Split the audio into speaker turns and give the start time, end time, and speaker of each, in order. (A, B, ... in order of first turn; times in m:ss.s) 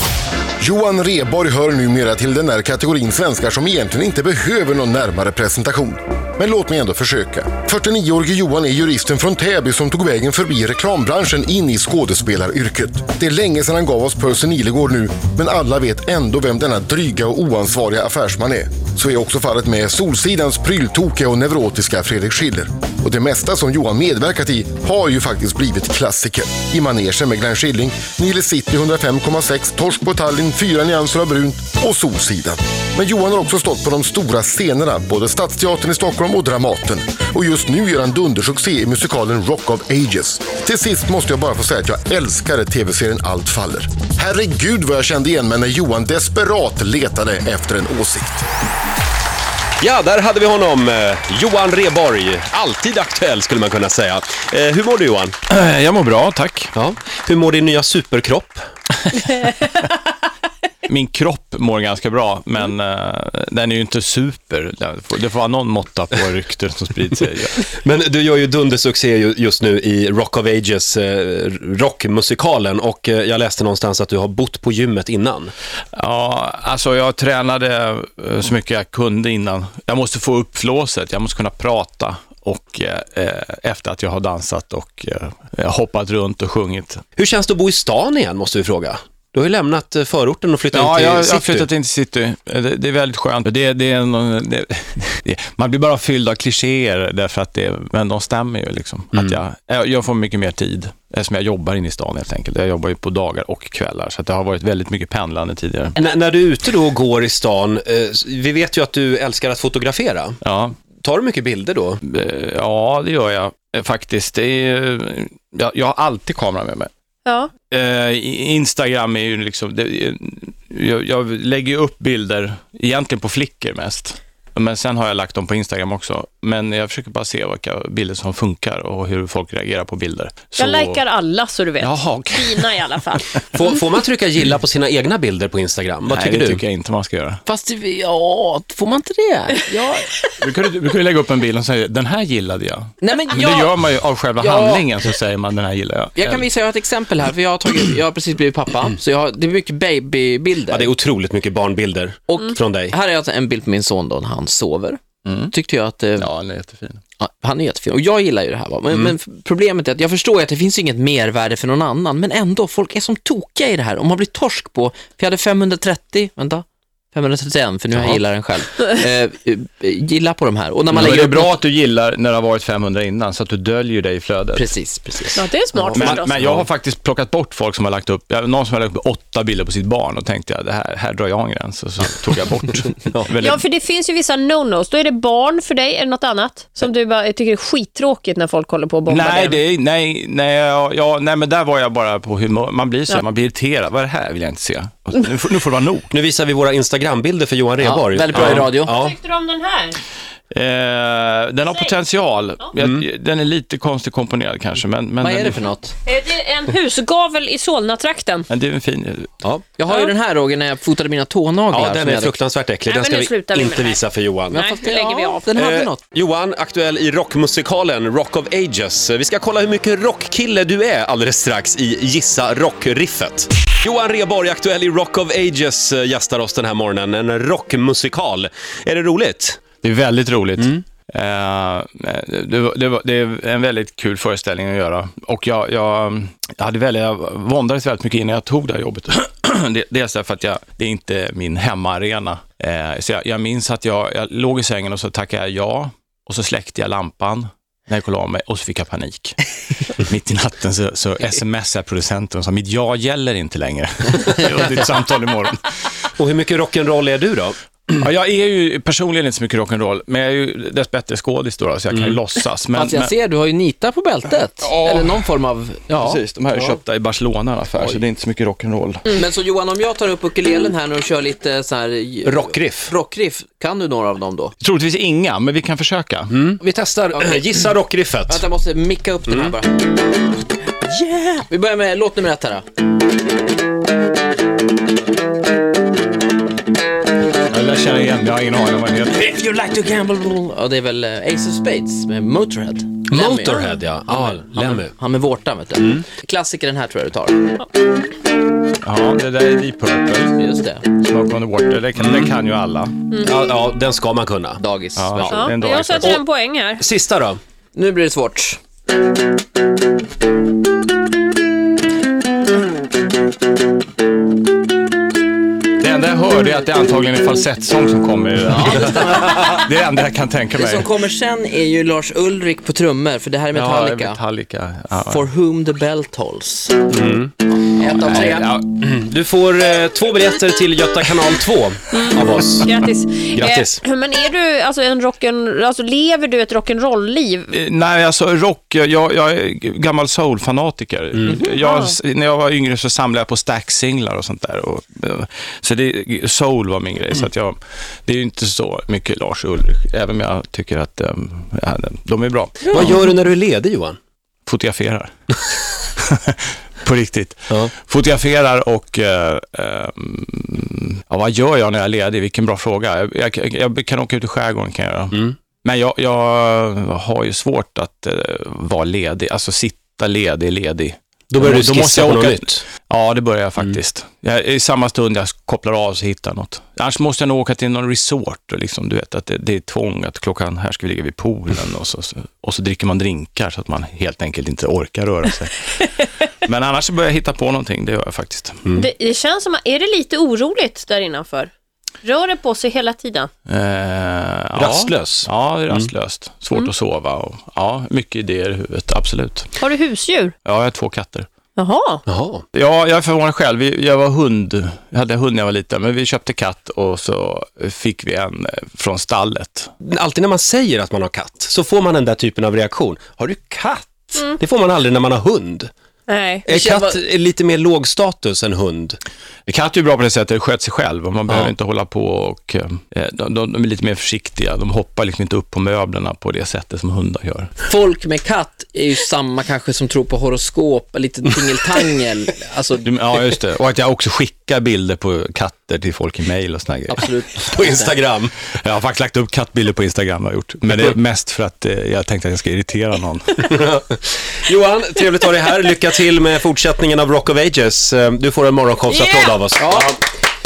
0:00.6-0:48.4 A
0:49.8-0:55.4 B
0:55.5-0:56.7 C
0:56.8-0:58.6 B
1:00.9-1:07.6 C
1:07.6-1:15.5 B
1:16.0-1:27.0 C
1:27.2-1:31.7 B
1:30.7-1:46.0 C
1:46.0-1:50.4 B
1:50.4-1:50.8 C
1:51.0-1:52.0 B
1:52.0-1:56.9 C
1:57.3-1:57.5 D
1:57.7-2:11.0 C
2:10.6-2:13.4 D
2:11.8-2:13.0 C
2:13.5-2:16.6 B
2:16.1-2:17.4 C
2:17.5-2:20.1 E
2:20.4-2:26.5 C
2:23.0-2:23.8 E
2:24.4-2:24.9 E
2:26.2-2:30.9 E
2:30.7-2:33.0 B
2:32.3-2:36.3 E
2:35.2-2:35.5 C
2:36.2-2:37.0 C
2:37.2-2:51.6 E
2:50.9-2:54.7 C
2:54.6-2:56.2 E
2:55.4-2:56.4 D
2:55.9-3:03.6 C
3:03.4-3:09.6 D
3:09.1-3:16.1 C
3:16.1-3:19.2 B
3:17.8-3:19.0 E
3:18.3-3:18.7 C
3:18.9-3:20.0 D
3:20.5-3:25.6 C
3:21.7-3:22.0 D
3:25.2-3:26.0 E
3:26.0-3:28.5 D
3:28.5-3:29.3 C
3:29.8-3:32.4 E
3:29.9-3:30.1 D
3:31.7-3:34.6 B
3:32.9-3:35.5 D
3:34.5-3:36.0 E
3:35.5-3:49.6 B
3:49.8-4:09.4 C
3:50.6-3:50.8 B
4:10.0-4:15.8 C
4:16.2-4:17.6 B
4:17.9-4:23.1 C
4:22.7-4:26.2 E
4:24.6-4:25.1 C
4:26.0-4:29.1 C
4:27.8-4:28.0 E
4:29.1-4:34.5 E
4:32.2-4:32.9 B
4:34.6-4:36.3 C
4:36.3-4:38.4 B
4:37.1-4:37.6 E
4:38.2-4:40.0 E
4:39.3-4:39.5 B
4:40.6-4:42.6 E
4:47.5-4:49.2 C
4:49.1-4:57.5 E
4:53.1-4:54.9 B
4:53.5-4:53.8 D
4:58.8-5:00.4 C
5:00.4-5:00.9 E
5:01.0-5:02.9 C
5:02.0-5:02.3 B
5:03.1-5:03.4 D
5:03.2-5:04.6 B
5:04.6-5:05.5 E
5:05.0-5:06.2 C
5:05.2-5:06.8 D
5:06.8-5:07.4 B
5:07.8-5:08.6 E
5:15.8-5:20.9 C
5:18.6-5:19.4 E
5:20.5-5:24.2 E
5:23.5-5:25.3 C
5:24.9-5:26.9 E
5:26.9-5:27.3 B
5:27.6-5:28.5 E
5:27.9-5:28.7 C
5:28.6-5:32.7 B
5:31.9-5:37.5 D
5:33.3-5:33.8 B
5:37.5-5:52.9 C
5:41.2-5:42.0 D
5:52.7-5:54.0 B
5:54.5-5:55.4 C
5:56.0-6:25.9 C
6:05.1-6:05.4 B
6:11.3-6:12.6 B
6:26.4-6:28.7 C
6:28.7-6:31.5 D
6:32.0-6:33.3 D
6:33.5-6:39.6 C
6:34.6-6:35.9 B
6:39.6-6:40.4 D
6:40.4-6:41.3 C
6:41.6-6:42.0 D
6:42.1-6:42.4 B
6:42.5-6:49.7 C
6:49.8-6:55.7 B
6:56.1-6:56.5 D
6:56.4-6:59.0 B
6:56.5-6:57.0 E
6:59.5-7:07.6 C
7:07.6-7:12.9 E
7:12.8-7:17.1 C
7:16.9-7:18.0 E
7:17.5-7:18.3 B
7:18.6-7:23.5 C
7:23.4-7:30.0 B
7:29.6-7:30.0 E